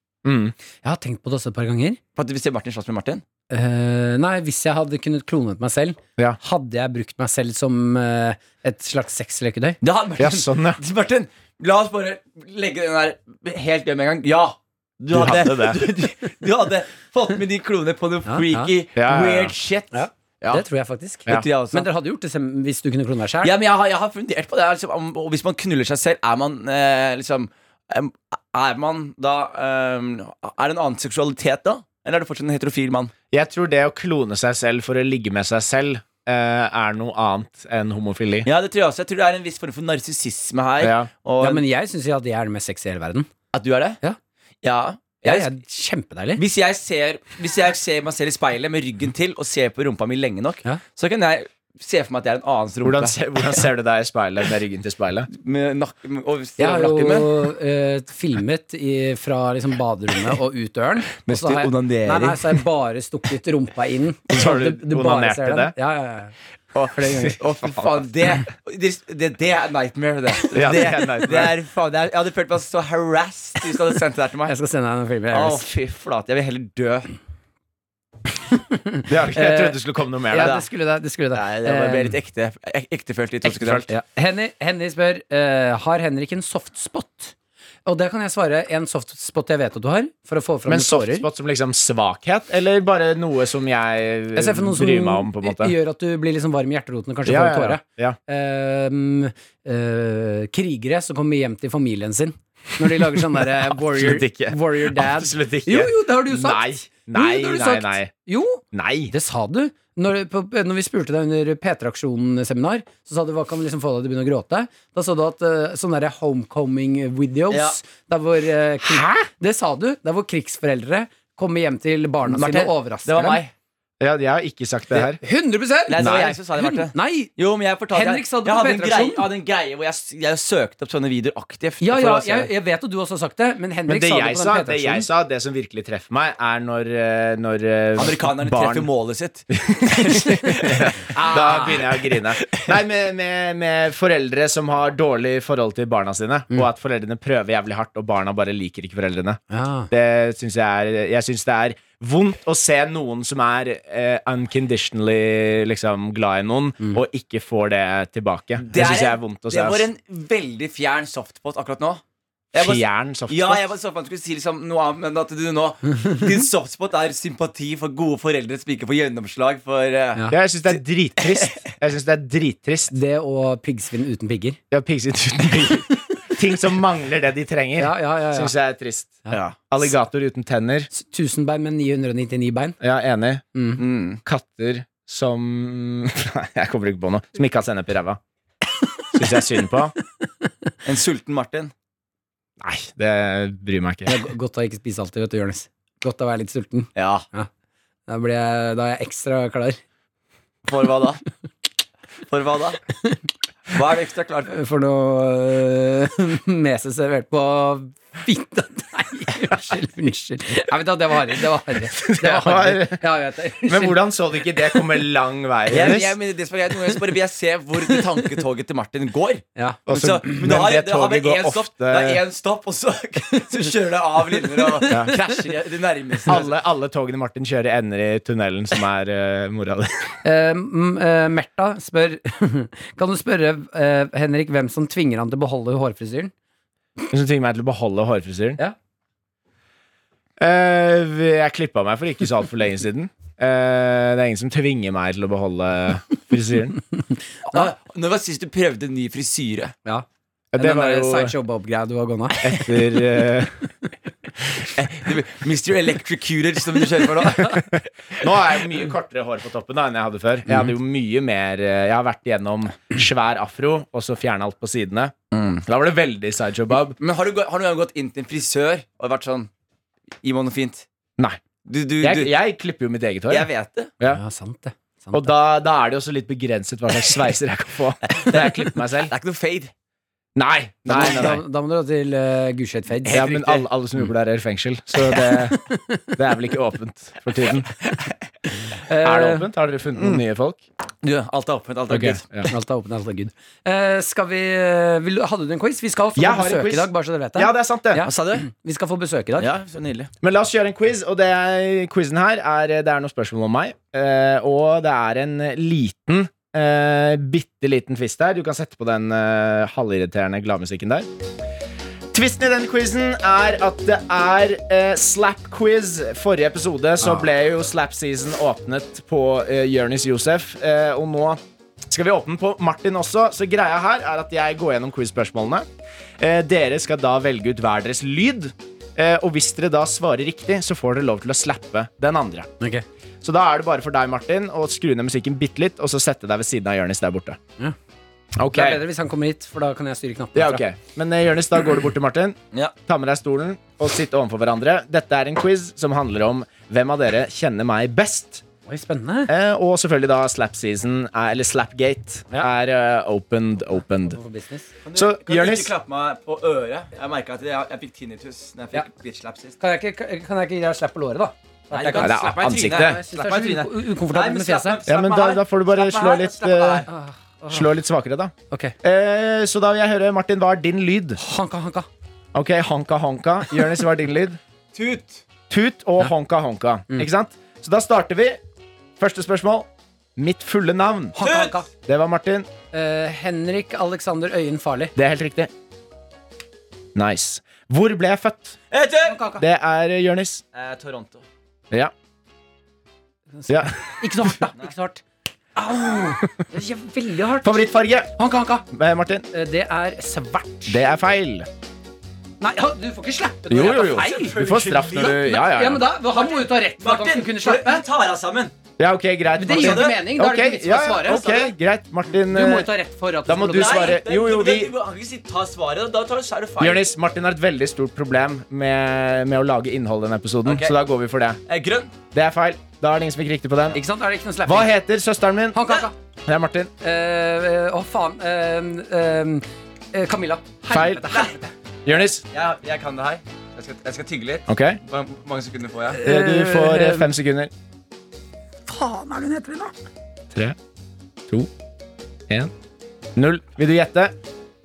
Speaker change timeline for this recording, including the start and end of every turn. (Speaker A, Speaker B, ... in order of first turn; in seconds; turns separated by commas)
Speaker A: 0.2-0.5, Speaker B: 0.8-2.0, Speaker C: 2.1-3.2, Speaker B: 3.5-9.8, Speaker C: 9.8-20.6, Speaker A: 10.2-10.8, Speaker A: 15.1-15.8, Speaker B: 18.3-18.7, Speaker A: 18.9-19.5, Speaker B: 19.9-23.5, Speaker C: 21.2-21.9, Speaker C: 23.4-33.1, Speaker A: 33.3-38.5, Speaker C: 38.4-41.6, Speaker A: 40.8-41.1, Speaker B: 41.4-43.3, Speaker C: 43.5-44.0, Speaker C: 44.6-45.5, Speaker B: 45.2-46.4, Speaker C: 46.4-53.2, Speaker A: 52.8-55.3, Speaker C: 55.3-57.3, Speaker B: 56.6-66.3, Speaker C: 61.2-62.6, Speaker A: 64.3-65.7, Speaker C: 66.7-74.5, Speaker B: 66.9-67.4, Speaker A: 70.5-71.5, Speaker B: 74.5-75.7, Speaker C: 75.3-77.1, Speaker B: 78.6-82.1, Speaker A: 79.1-80.6, Speaker C: 80.4-80.6, Speaker C: 81.3-83.9, Speaker B: 83.4-87.3, Speaker B: 87.8-91.2, Speaker A: 90.7-95.7, Speaker B: 94.3-123.4, Speaker A: 97.2-98.2, Speaker A: 103.2-108.1, Speaker A: 108.7-109.1, Speaker C: 117.5-117.8, Speaker A: 118.8-119.3, Speaker C: 122.3-123.5, Speaker A: 124.0-125.2, Speaker B: 125.2-127.3, Speaker C: 125.9-132.5, Speaker A: 126.0-126.4, Speaker B: 127.9-129.2, Speaker B: 131.8-135.1, Speaker A: 133.9-138.9, Speaker C: 137.9-142.7, Speaker A: 139.5-159.8, Speaker B: 141.1-141.8, Speaker B: 149.5-149.9, Speaker C: 158.6-162.0, Speaker C: 162.5-171.6, Speaker A: 162.5-163.6, Speaker A: 170.3-172.9, Speaker B: 172.9-174.6, Speaker A: 174.7-180.9, Speaker B: 177.8-178.5, Speaker C: 179.3-179.6, Speaker B: 180.9-182.8, Speaker A: 182.8-183.4, Speaker B: 183.5-183.8, Speaker C: 183.8-184.2, Speaker A: 184.2-188.2, Speaker A: 189.1-189.9, Speaker C: 190.8-191.7, Speaker A: 192.6-194.2, Speaker B: 194.1-197.5, Speaker C: 196.9-197.2, Speaker B: 198.1-199.8, Speaker C: 200.7-201.2, Speaker C: 202.3-202.8, Speaker C: 203.7-204.5, Speaker B: 204.5-214.0, Speaker A: 211.9-213.0, Speaker A: 213.6-216.1, Speaker C: 215.7-226.4, Speaker B: 219.6-220.4, Speaker A: 219.9-222.2, Speaker B: 224.3-225.2, Speaker A: 224.9-225.1, Speaker A: 226.3-230.0, Speaker B: 230.2-236.3, Speaker A: 237.1-238.6, Speaker A: 240.4-246.8, Speaker C: 247.4-249.7, Speaker A: 250.5-251.3, Speaker B: 250.6-253.0, Speaker A: 252.4-253.5, Speaker C: 254.7-257.7, Speaker A: 257.7-267.0, Speaker C: 265.3-265.6, Speaker C: 267.0-269.5, Speaker C: 270.2-270.9, Speaker C: 271.6-272.3, Speaker A: 272.0-273.5, Speaker C: 273.3-273.9, Speaker B: 274.1-275.3, Speaker A: 275.1-279.1, Speaker C: 278.1-279.7, Speaker A: 280.4-281.4, Speaker B: 280.9-283.2, Speaker C: 283.0-283.6, Speaker A: 283.1-285.6, Speaker B: 285.1-286.1, Speaker A: 286.1-287.7, Speaker B: 288.7-289.5, Speaker A: 289.0-290.6, Speaker C: 291.0-292.2, Speaker A: 291.9-292.5, Speaker B: 292.5-299.5, Speaker A: 296.1-298.0, Speaker C: 298.0-298.5, Speaker C: 299.4-300.1, Speaker A: 300.2-311.1, Speaker A: 312.1-325.6, Speaker A: 326.2-332.5, Speaker A: 333.2-337.4, Speaker A: 338.4-338.8, Speaker B: 338.5-340.6, Speaker A: 340.3-348.4, Speaker B: 348.7-349.3, Speaker A: 349.3-354.2, Speaker B: 354.0-354.7, Speaker C: 354.8-359.6, Speaker A: 354.9-355.7, Speaker B: 359.6-364.8, Speaker C: 361.7-366.9, Speaker A: 361.9-363.0, Speaker A: 364.9-366.9, Speaker B: 366.9-367.7, Speaker A: 367.5-371.2, Speaker B: 368.5-368.7, Speaker B: 371.2-371.9, Speaker A: 372.3-374.4, Speaker C: 374.7-375.2, Speaker A: 375.5-378.4, Speaker A: 379.0-381.2, Speaker B: 381.1-381.7, Speaker C: 381.2-381.6, Speaker A: 381.9-382.5, Speaker B: 382.7-384.9, Speaker A: 384.9-385.5, Speaker A: 386.9-388.6, Speaker C: 388.7-389.2, Speaker B: 389.0-389.4, Speaker A: 389.4-390.4, Speaker C: 390.5-391.2, Speaker B: 393.4-395.0, Speaker A: 393.5-394.3, Speaker B: 395.6-397.6, Speaker A: 397.4-398.1, Speaker B: 398.2-398.6, Speaker A: 398.7-399.2, Speaker B: 399.3-400.8, Speaker A: 400.7-401.5, Speaker B: 402.4-404.4, Speaker A: 403.5-405.8, Speaker C: 403.6-405.3, Speaker B: 405.0-407.8, Speaker C: 406.1-408.5, Speaker A: 408.8-412.7, Speaker B: 409.4-411.4, Speaker C: 409.5-410.0, Speaker C: 411.1-411.4, Speaker B: 412.1-414.0, Speaker A: 413.2-414.7, Speaker C: 413.5-416.8, Speaker A: 416.6-421.4, Speaker C: 420.4-420.8, Speaker C: 421.5-421.9, Speaker A: 422.1-423.8, Speaker B: 423.7-424.7, Speaker A: 424.4-425.7, Speaker B: 425.5-425.9, Speaker A: 426.2-426.7, Speaker B: 426.8-431.5, Speaker A: 430.7-431.1, Speaker A: 431.9-432.2, Speaker C: 432.3-436.0, Speaker A: 434.5-434.8, Speaker B: 435.9-437.1, Speaker A: 436.0-437.5, Speaker B: 438.7-439.7, Speaker A: 443.1-444.1